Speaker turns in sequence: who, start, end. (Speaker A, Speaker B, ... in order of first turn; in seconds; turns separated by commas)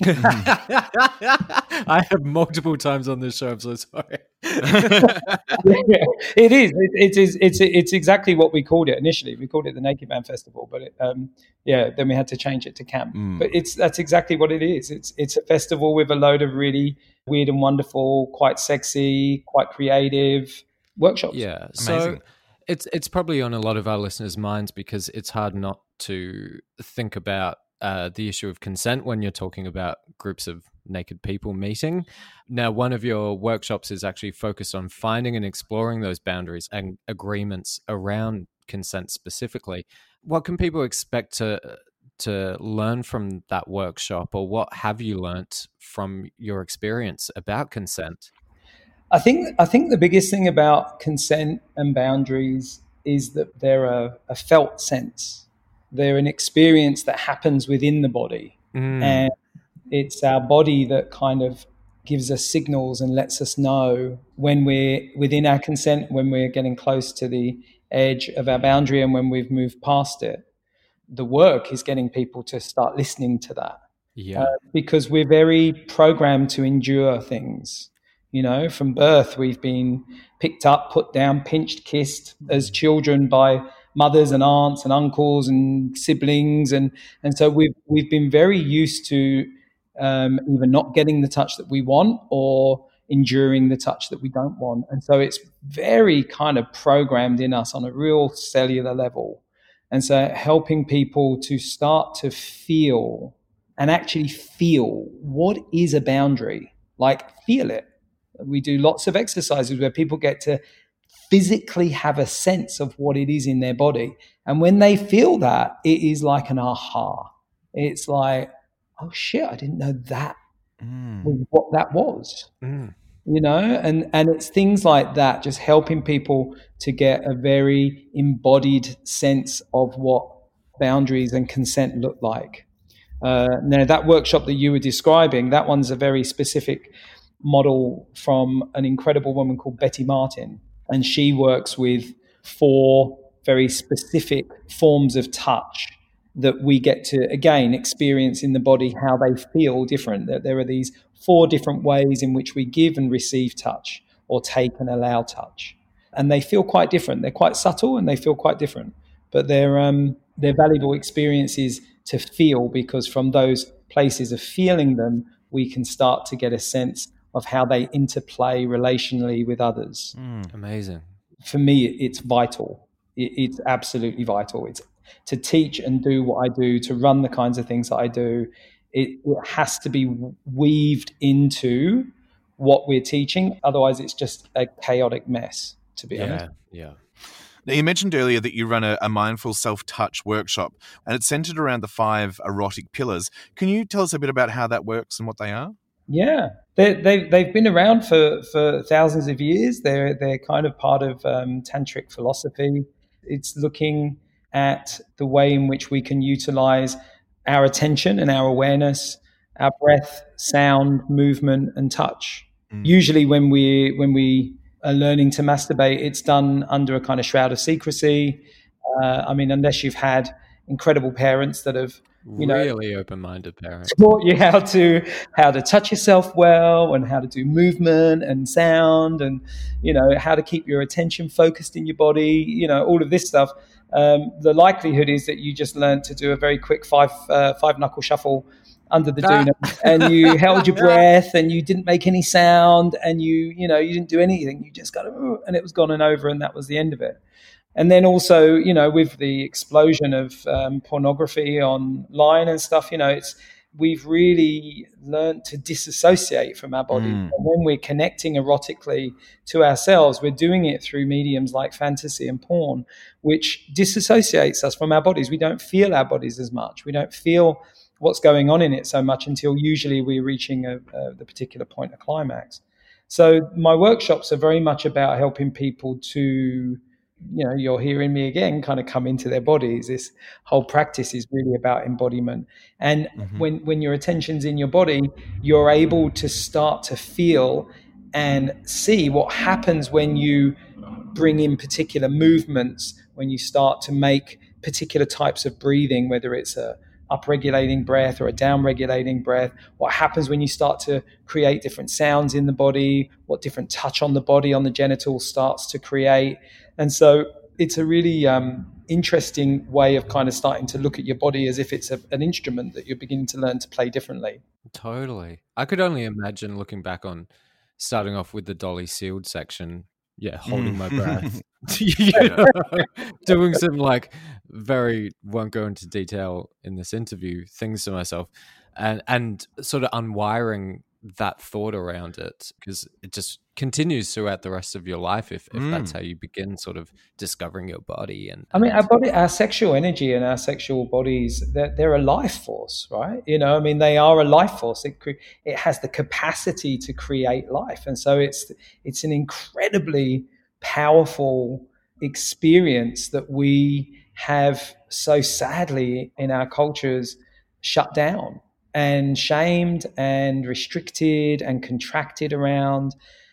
Speaker A: 0.2-5.4, Speaker B: 0.2-0.5, Speaker B: 4.8-5.1, Speaker C: 5.6-21.5, Speaker B: 13.1-13.5, Speaker A: 21.3-48.3, Speaker B: 21.8-22.2, Speaker C: 49.1-59.3, Speaker A: 58.8-59.3, Speaker C: 59.9-70.4, Speaker C: 71.1-73.8, Speaker A: 74.2-74.5, Speaker C: 74.3-107.9, Speaker C: 108.4-110.6, Speaker C: 111.3-120.4, Speaker B: 120.8-121.4, Speaker C: 121.2-122.5, Speaker A: 122.6-123.0, Speaker C: 123.3-132.7, Speaker C: 133.2-136.9, Speaker C: 137.4-170.1, Speaker B: 170.2-170.5, Speaker A: 170.5-171.1, Speaker C: 171.4-186.4, Speaker A: 186.1-187.0, Speaker B: 187.7-195.8, Speaker C: 196.1-222.7, Speaker B: 212.7-213.0, Speaker A: 222.2-224.0, Speaker C: 223.9-247.2, Speaker A: 240.0-240.3, Speaker C: 247.8-290.6, Speaker B: 256.9-257.4, Speaker B: 283.2-283.5, Speaker C: 291.1-314.4, Speaker A: 314.7-338.9, Speaker B: 320.5-321.4, Speaker B: 322.1-322.5, Speaker B: 335.5-335.9, Speaker C: 338.5-362.9